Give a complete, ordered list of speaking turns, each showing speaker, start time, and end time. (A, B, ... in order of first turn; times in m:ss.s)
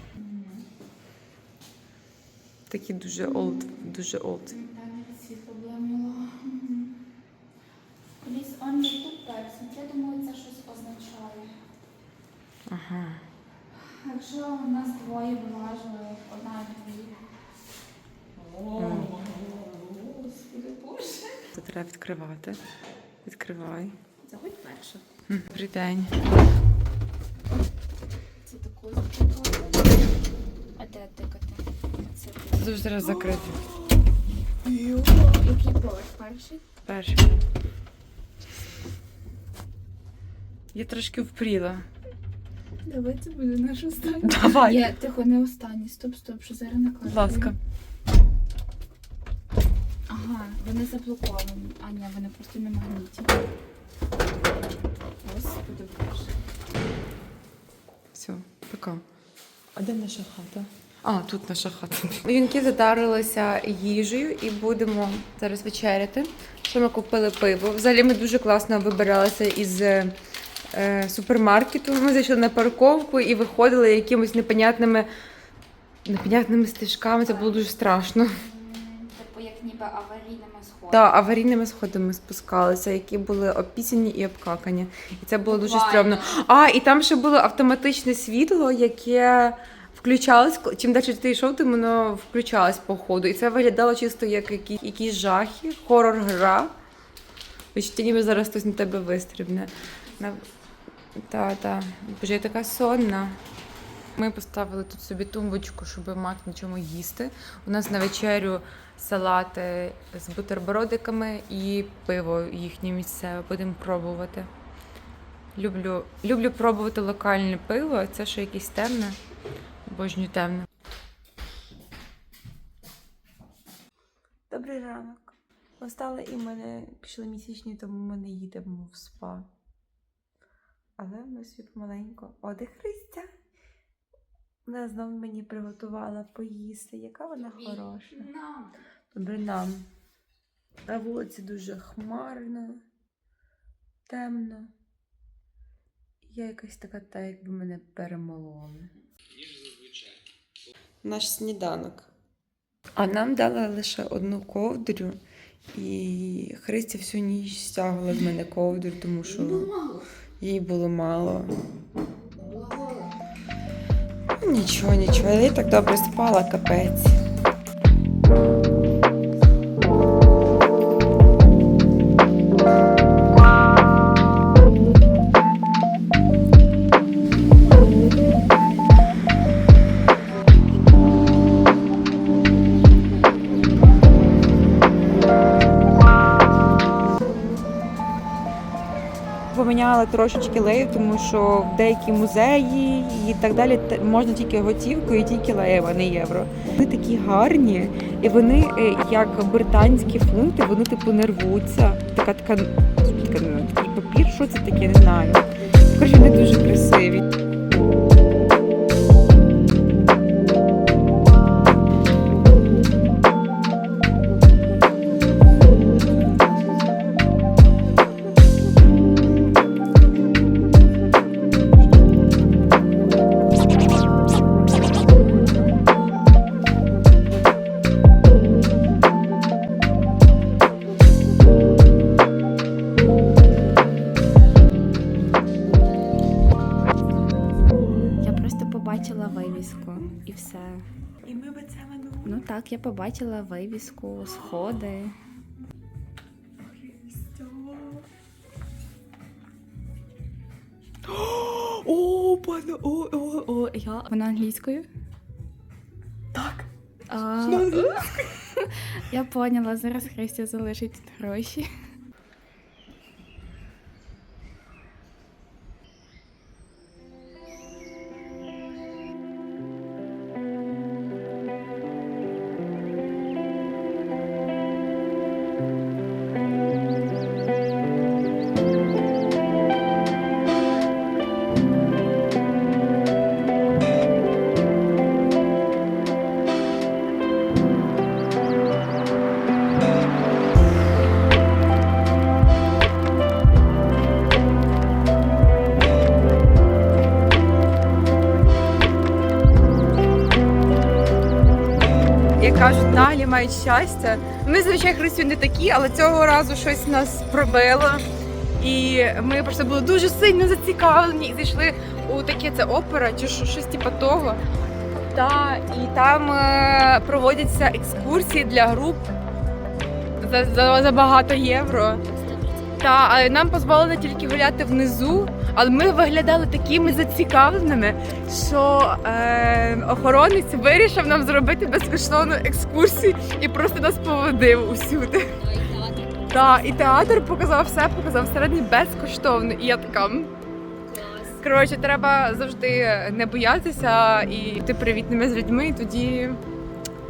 0:00.1-0:00.7 A
0:02.7-0:04.6 B
0:04.5-0:07.0 A
0:08.2-0:11.6 A
0:12.7-0:13.2 B
0:13.8-0:17.2 A
0:18.4-0:21.4 A
0:18.8-0:19.2 B
0:21.6-0:22.6 B
0:23.2-0:24.0 B
0:24.2-0:25.0 A
0:25.3-0:26.2 B
0:28.4-0:30.0 A
0:30.8-0:33.8 A
0:32.6-0:33.6 B
0:34.6-0:36.6 A
0:36.8-0:37.4 B
0:40.7-0:41.9 B
0:42.8-0:47.6 A
0:44.2-0:44.9 B
0:47.1-0:47.6 B
0:50.1-0:53.5 A
0:55.1-0:56.4 A
0:58.1-0:59.0 B
0:59.8-1:10.2 B
1:10.7-1:15.1 B
1:16.1-1:18.4 B
1:17.3-1:17.6 A
1:18.4-1:21.1 A
1:20.9-1:36.7 B
1:25.5-1:26.3 A
1:37.7-1:40.4 B
1:41.2-1:43.4 B
1:44.2-1:54.5 B
1:55.6-1:59.2 B
1:59.9-2:00.7 B
2:04.5-2:09.5 B
2:11.0-2:13.3 B
2:14.7-2:18.3 B
2:17.5-2:18.7 A
2:19.1-2:19.9 B
2:20.9-2:22.8 B
2:24.1-2:24.7 B
2:26.2-2:28.9 B
2:31.0-2:32.1 B
2:33.0-2:35.2 B
2:35.7-2:39.7 B
2:39.2-2:40.1 A
2:40.4-2:41.5 B
2:42.4-2:43.2 A
2:44.4-2:47.2 B
2:57.8-2:58.5 A
3:09.5-3:27.2 B
3:58.2-4:00.8 A
4:01.2-4:02.4 B
4:02.2-4:05.2 A
4:06.6-4:08.0 B
4:11.1-4:14.9 A
4:16.4-4:16.7 B
4:17.1-4:21.7 A
4:17.4-4:18.0 B
5:02.4-5:08.0 B
5:08.6-5:14.4 B
5:15.1-5:19.1 B
5:20.2-5:22.0 B
5:22.0-5:22.8 A
5:22.8-5:35.4 B
5:35.3-5:37.0 A
5:36.3-5:40.3 B
5:40.9-5:41.4 A
5:41.4-5:46.4 B